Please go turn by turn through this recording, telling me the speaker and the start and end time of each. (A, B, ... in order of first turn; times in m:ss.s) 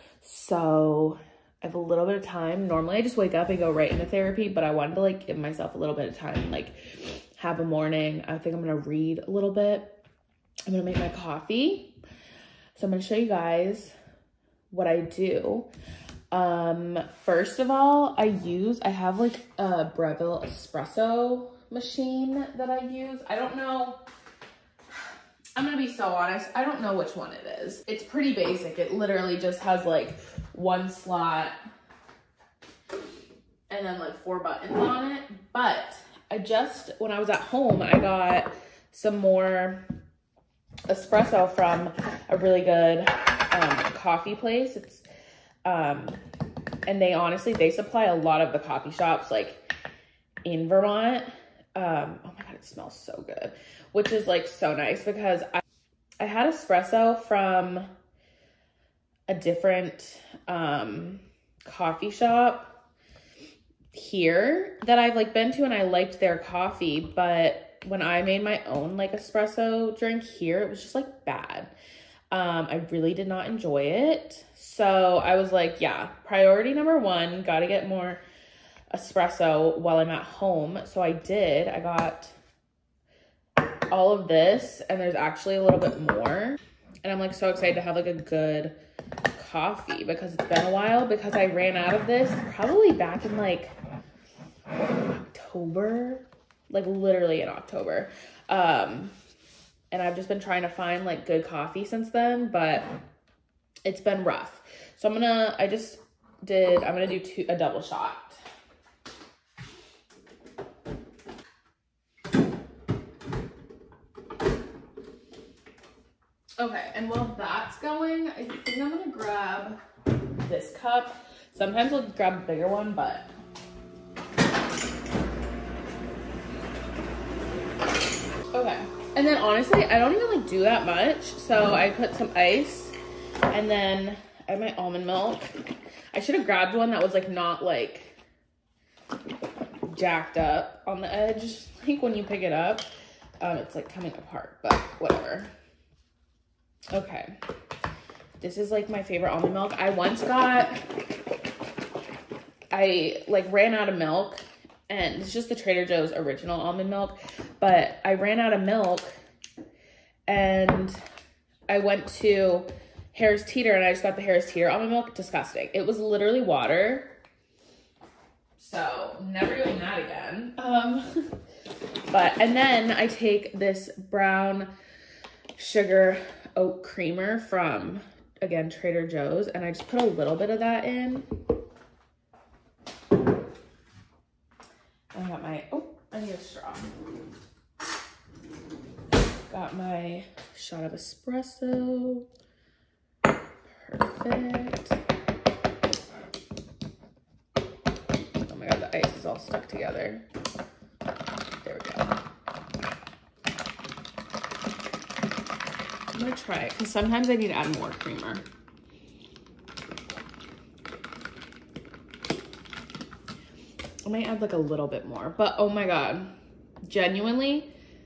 0:00.2-0:10.0 A
0:10.7-0:12.0 A
0:12.7-0:13.9 A
0:14.7-0:15.7 A
0:16.3-0:24.0 A
0:25.6-0:31.5 A
0:33.7-0:39.9 A
0:40.9-0:45.0 A
0:45.6-0:46.2 A
0:46.9-0:49.6 A
0:50.4-0:55.6 A
0:56.2-0:57.9 A
0:59.3-1:02.8 A
1:03.9-1:11.7 A
1:12.3-1:18.2 A
1:18.9-1:22.3 A
1:23.9-1:28.7 A
1:29.3-1:33.8 A
1:35.1-1:39.1 A
1:39.9-1:42.9 A
1:43.8-1:48.4 A
1:56.6-1:59.8 A
2:00.4-2:03.3 A
2:08.5-2:12.9 A
2:13.5-2:15.6 A
2:16.1-2:18.2 A
2:19.9-2:22.9 A
2:23.4-2:25.5 A
2:26.9-2:27.4 A
2:28.4-2:30.9 A
2:32.7-2:39.1 A
2:40.3-2:41.0 A
2:41.7-2:47.1 A
2:48.6-2:51.4 A
2:52.1-2:54.7 A
2:55.6-3:01.3 A
3:05.1-3:06.9 A
3:09.5-3:12.3 A
3:13.7-3:15.0 A
3:18.4-3:20.3 A
3:21.6-3:22.2 A
3:26.1-3:28.4 A
3:34.0-3:36.3 A
3:36.8-3:37.7 A